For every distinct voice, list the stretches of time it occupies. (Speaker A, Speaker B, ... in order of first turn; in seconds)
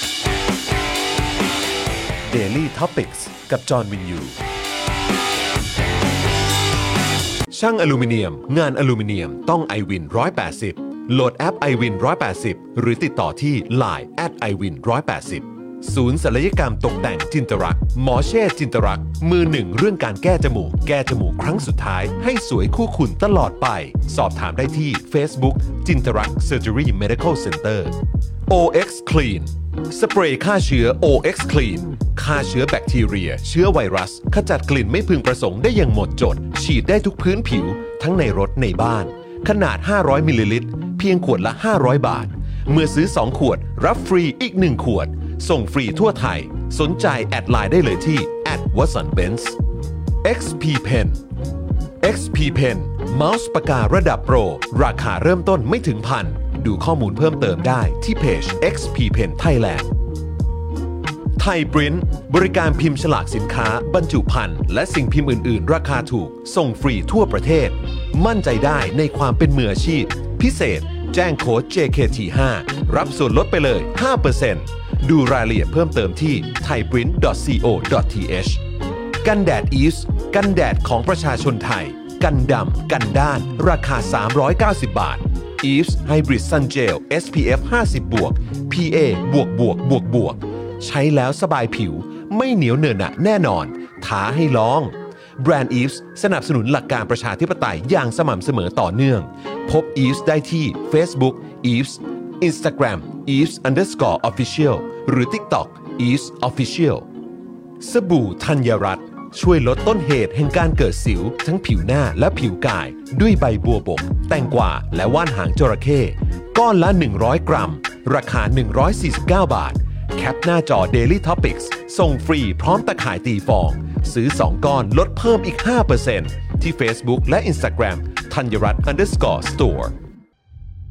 Speaker A: 2.3-4.3, 7.5-27.9, 28.5-49.6, 50.2-51.2, 52.0-59.9, 61.4-78.6, 79.2-107.0, 107.8-129.9